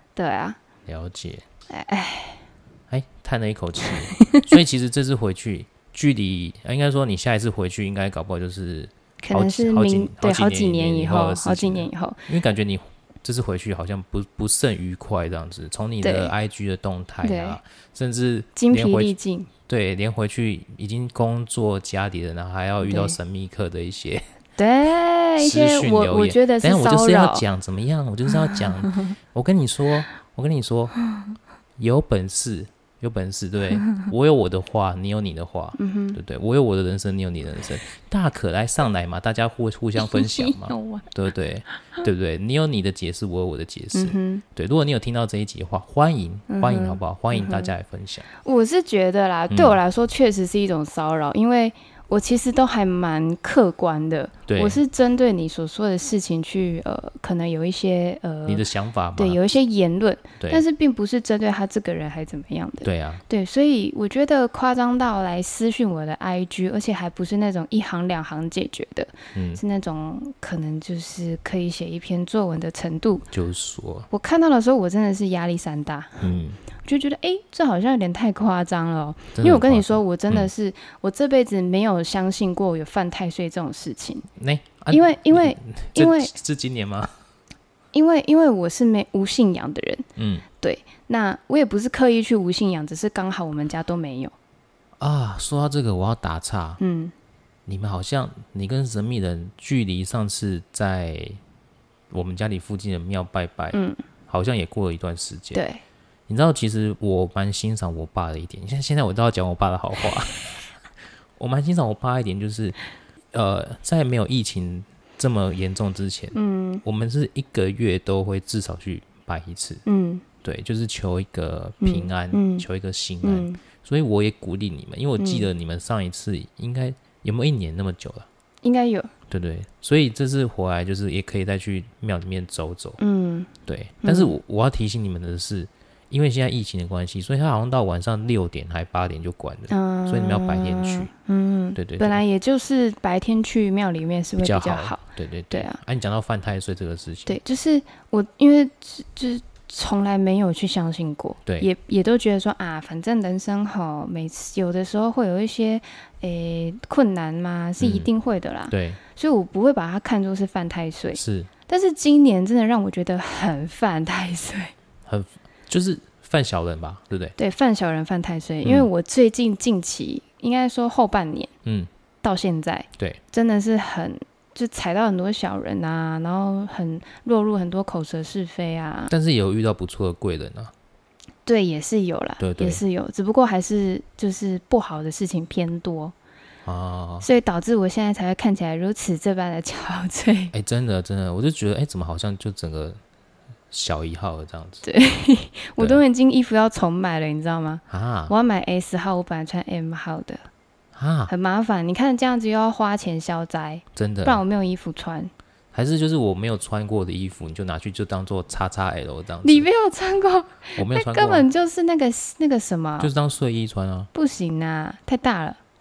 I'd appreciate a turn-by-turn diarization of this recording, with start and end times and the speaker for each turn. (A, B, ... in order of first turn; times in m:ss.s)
0:00.2-0:00.6 A
0:00.8-0:01.4 B
0:01.7-0:02.4 A
0:02.9-0:19.1 B
0:03.9-0:04.5 A
0:09.2-0:12.3 A
0:16.0-0:16.3 A
0:17.2-0:17.6 A
0:18.6-0:19.5 A
0:19.7-0:24.2 B
0:22.8-0:23.2 A
0:24.6-0:27.4 A
0:25.4-0:31.0 B
0:31.8-0:48.3 B
0:35.8-0:36.2 A
0:40.0-0:41.1 A
0:43.9-0:44.4 A
0:46.5-0:47.7 A
0:48.4-1:13.3 A
0:49.5-0:49.8 B
0:54.5-0:54.8 B
0:58.4-0:59.4 B
1:02.8-1:03.2 B
1:09.3-1:09.6 B
1:13.3-1:14.1 B
1:14.1-1:24.3 A
1:16.2-1:16.6 B
1:19.4-1:20.5 B
1:24.4-1:27.1 B
1:24.9-1:26.3 A
1:27.9-1:30.0 A
1:30.2-1:30.4 B
1:30.6-1:34.3 A
1:35.0-1:36.8 B
1:36.8-1:37.1 A
1:37.7-1:41.4 B
1:42.1-1:45.6 B
1:43.7-1:44.0 A
1:45.5-1:45.8 A
1:46.3-1:50.6 B
1:51.4-1:52.8 B
1:53.3-1:59.8 B
1:56.3-1:56.8 A
1:59.8-2:00.2 A
2:00.4-2:08.3 B
2:01.8-2:02.6 A
2:03.2-2:03.6 A
2:05.2-2:05.5 A
2:08.6-2:09.1 A
2:09.3-2:13.0 B
2:13.0-2:13.5 A
2:13.6-2:21.1 B
2:14.0-2:14.3 A
2:19.7-2:25.8 A
2:21.8-2:22.2 B
2:24.4-2:27.4 B
2:27.3-2:44.7 A
2:37.8-2:38.1 B
2:38.7-2:39.0 B
2:41.1-2:41.5 B
2:45.0-2:47.4 B
2:47.4-2:51.5 A
2:48.6-2:48.9 B
2:51.6-2:51.9 B
2:52.2-2:59.1 A
2:59.1-3:00.7 B
3:01.4-3:06.1 A
3:02.4-3:02.8 B
3:06.6-3:07.2 B
3:07.2-3:10.5 A
3:10.5-3:13.0 B
3:13.7-3:14.8 B
3:14.8-3:20.5 A
3:17.9-3:18.3 B
3:20.9-3:21.3 B
3:21.3-3:25.3 A
3:23.9-3:24.4 B
3:25.7-3:29.7 B
3:29.4-3:33.1 A
3:30.8-3:31.5 B
3:33.0-3:34.1 B
3:34.1-3:35.6 A